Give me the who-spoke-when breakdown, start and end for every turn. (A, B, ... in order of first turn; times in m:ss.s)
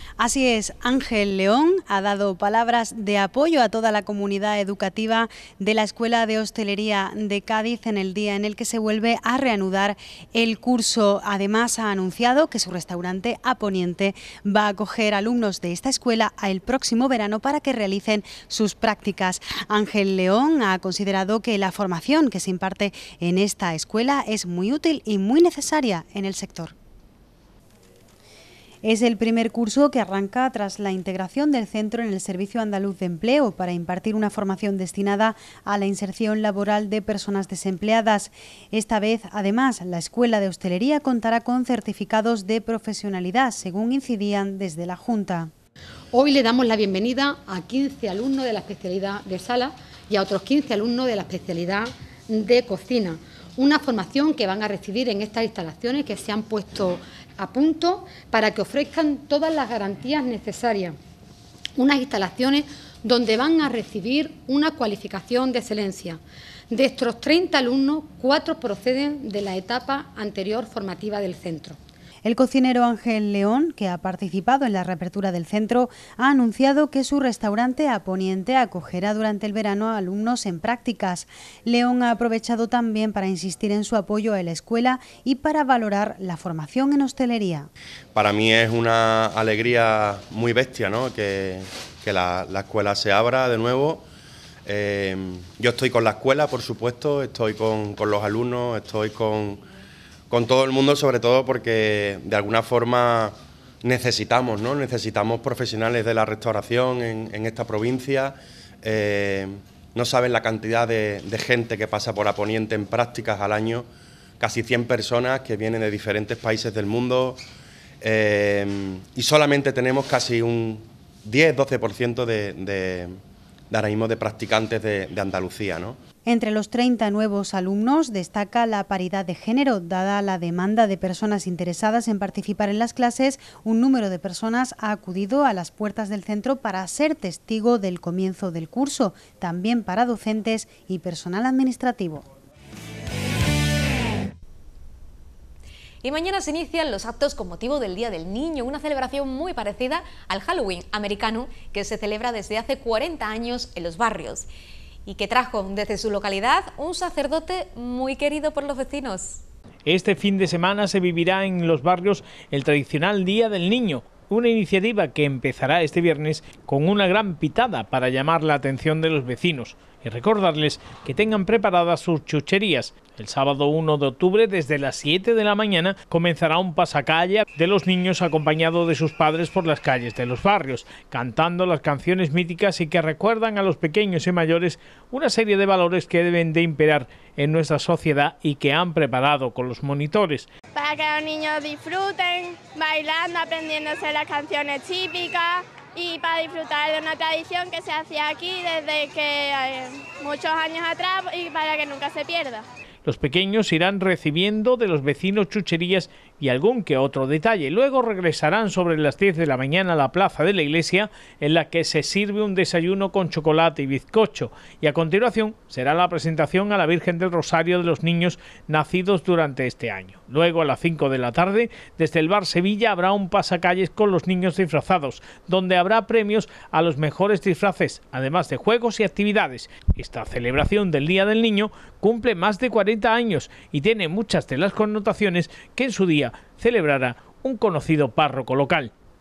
0:00.2-0:26.7 A
0:28.8-0:45.5 A
0:46.1-1:01.0 B
1:01.8-1:11.8 B
1:12.2-1:27.7 A
1:28.2-1:34.0 C
1:34.7-1:39.6 C
1:40.3-1:53.9 C
1:54.4-1:57.4 C
1:58.0-2:03.2 C
2:03.7-2:06.0 C
2:06.2-2:22.2 A
2:26.0-2:34.5 D
2:35.1-2:39.4 D
2:39.8-3:10.5 E
3:10.7-3:22.7 F
3:23.0-3:58.9 E